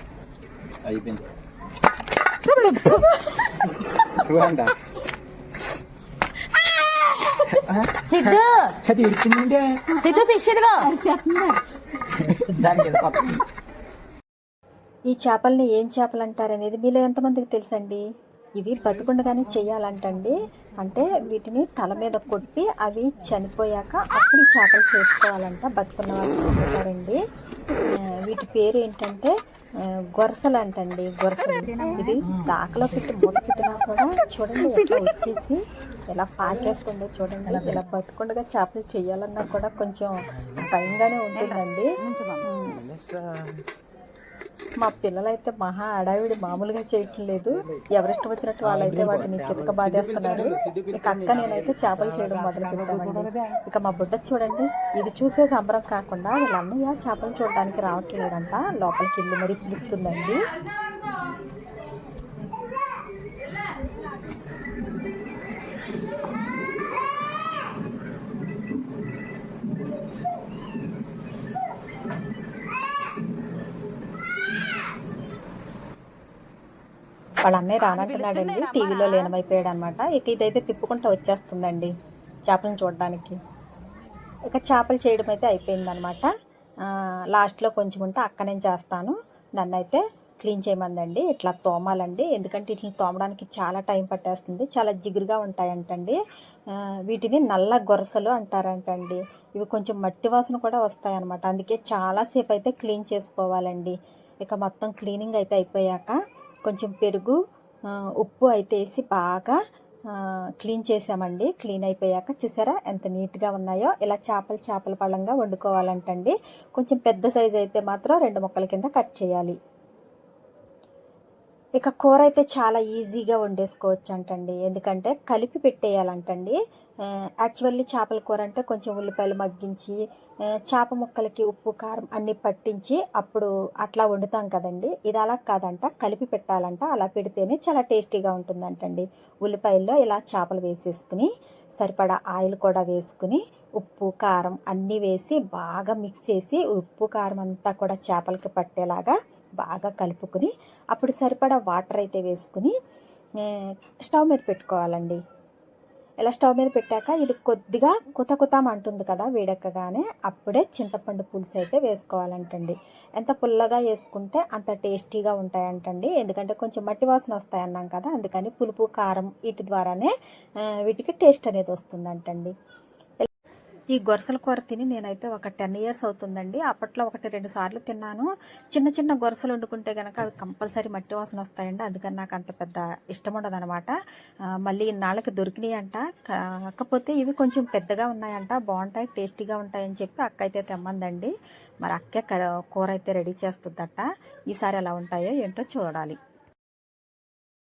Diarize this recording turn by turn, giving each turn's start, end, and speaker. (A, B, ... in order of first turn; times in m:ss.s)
0:00.8-0:01.2 A
0:02.5-0:03.3 B
0:04.2-0:04.7 A
0:07.7-0:08.1 A
0:08.0-0:08.8 B
0:08.8-0:09.8 A
0:10.0-0:11.5 B
0:12.2-0:13.4 A
0:15.1-0:18.0 C
0:18.6-0:27.2 C
0:27.9-0:29.3 C
0:30.2-0:41.9 C
0:41.3-0:42.4 B
0:42.4-0:42.8 C
0:42.8-0:43.5 A
0:44.8-1:00.5 C
0:49.1-0:51.1 A
1:17.4-1:21.9 C
1:17.8-1:19.3 B
1:22.5-1:23.4 C
1:24.4-1:26.3 C
1:26.8-1:36.2 C
1:36.7-1:46.2 C
1:46.7-1:47.4 C
1:48.2-1:49.6 C
1:50.1-1:59.6 C
2:01.8-2:10.0 C
2:10.7-2:21.3 C
2:21.8-2:32.7 C
2:33.4-2:35.2 C
2:36.2-2:50.1 C
2:50.8-2:52.5 C
2:53.9-3:03.9 C
3:04.6-3:11.3 C
3:11.8-3:16.2 C